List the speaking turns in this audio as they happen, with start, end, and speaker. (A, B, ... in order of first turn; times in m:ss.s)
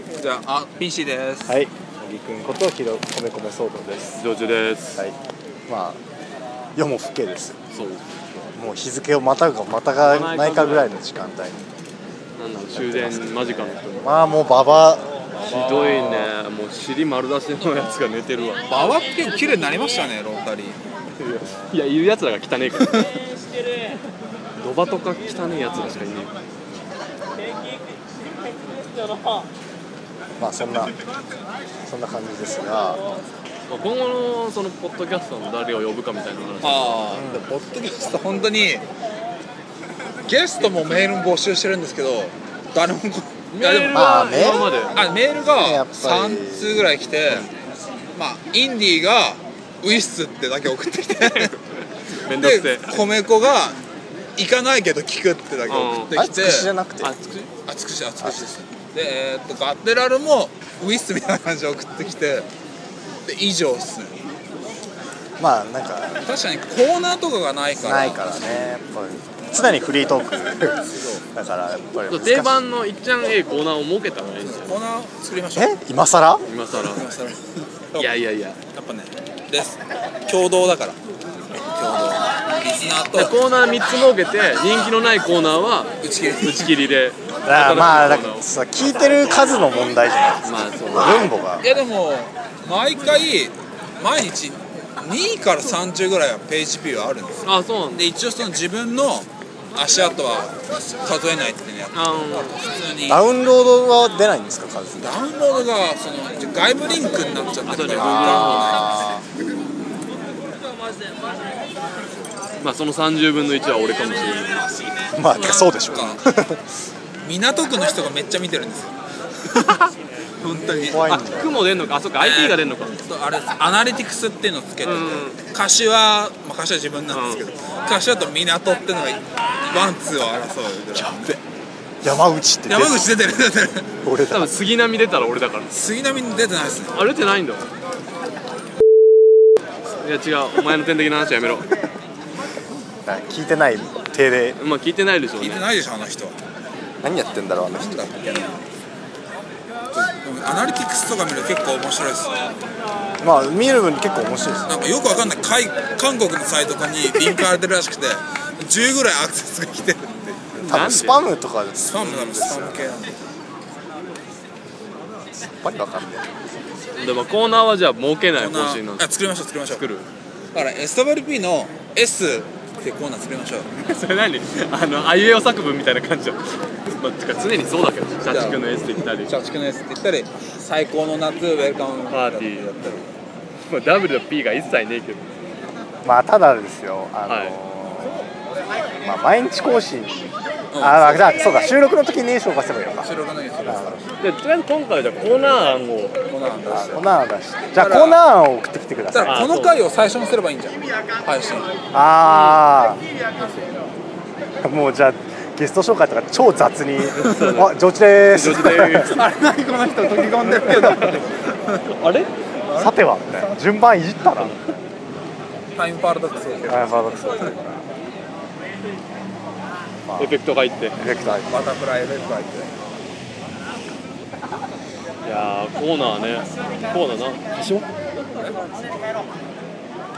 0:00.1-0:01.6 A
0:01.5-0:04.2 B
0:04.2-0:05.0 C
0:05.7-0:06.0 B
0:06.8-0:07.6 B
0:07.7-0:08.2 C
0:08.6-0:11.6 B
0:10.0-0:11.0 C
0:12.4-0:14.1 C
0:12.7-0:15.1 B
0:15.4-0:16.3 A
0:15.4-0:18.6 C
0:18.7-0:20.8 A
0:21.2-0:23.0 C
0:24.6-0:26.3 C
0:29.1-0:29.4 C
0:30.4-0:30.9 B
0:31.8-0:33.0 B
0:33.7-0:37.2 C
0:36.6-0:38.8 A
0:37.1-0:37.5 B
0:40.2-0:47.5 A
0:43.5-0:44.9 C
0:43.9-0:44.7 B
0:45.6-0:46.8 B
0:48.1-0:51.5 A
0:51.2-0:53.0 C
0:52.2-0:53.8 A
0:54.4-0:56.7 A
0:55.7-0:56.1 C
0:56.1-0:57.1 B
0:57.0-0:57.5 C
0:57.6-1:02.5 A
0:58.2-0:58.5 B
1:03.2-1:04.2 A
1:05.4-1:06.2 B
1:06.2-1:08.7 A
1:07.7-1:12.6 B
1:12.1-1:14.8 C
1:14.4-1:15.7 A
1:15.6-1:16.4 B
1:16.4-1:17.0 C
1:16.7-1:18.2 A
1:18.0-1:18.6 C
1:18.7-1:21.0 A
1:21.6-1:23.3 A
1:23.1-1:28.5 C
1:26.0-1:26.8 A
1:27.4-1:31.7 B
1:30.4-1:31.3 C
1:31.6-1:43.2 A
1:37.4-1:38.1 C
1:41.9-1:42.6 C
1:43.1-1:45.2 B
1:45.0-1:49.2 A
1:47.6-1:48.8 C
1:48.2-1:49.1 B
1:52.6-1:54.8 C
1:55.1-1:56.6 B
1:55.3-1:56.2 A
1:57.2-2:01.1 A
2:00.7-2:01.6 B
2:01.1-2:03.0 C
2:02.2-2:11.3 A
2:04.8-2:05.4 C
2:07.1-2:07.4 C
2:10.9-2:11.4 B
2:12.0-2:13.1 B
2:12.7-2:13.9 A
2:14.0-2:14.6 B
2:14.3-2:15.7 C
2:15.7-2:17.0 A
2:16.9-2:17.7 C
2:20.0-2:21.7 C
2:23.0-2:24.6 B
2:24.6-2:25.6 C
2:25.4-2:26.4 A
2:27.0-2:28.1 B
2:27.7-2:28.6 A
2:29.9-2:32.5 A
2:33.2-2:35.0 B
2:34.7-2:40.6 A
2:40.5-2:41.2 C
2:40.6-2:43.0 B
2:41.9-2:43.2 A
2:45.3-2:46.3 B
2:47.0-2:49.1 C
2:48.3-2:49.8 A
2:49.7-2:50.1 C
2:50.5-2:53.7 A
2:53.8-2:59.3 C
2:58.2-3:03.1 A
3:02.1-3:02.7 C
3:03.7-3:05.3 C
3:06.0-3:08.2 B
3:07.3-3:07.6 C
3:09.0-3:13.1 B
3:10.7-3:11.4 A
3:13.0-3:14.2 A
3:13.6-3:14.0 B
3:14.2-3:16.2 C
3:16.3-3:17.0 A
3:16.7-3:19.5 B
3:17.7-3:18.2 A
3:19.1-3:21.7 A
3:19.2-3:19.8 C
3:21.9-3:23.0 B
3:22.3-3:22.6 C
3:24.6-3:29.2 B
3:27.1-3:27.8 C
3:28.3-3:29.2 C
3:29.1-3:31.9 A
3:30.6-3:31.2 C
3:31.9-3:32.3 C
3:32.7-3:33.6 A
3:32.7-3:34.8 B
3:35.8-3:37.0 A
3:36.7-3:37.8 B
3:40.0-3:40.3 B
3:40.2-3:41.0 C
3:41.0-3:41.7 B
3:41.5-3:42.7 A
3:45.2-3:47.9 C
3:48.3-3:48.6 A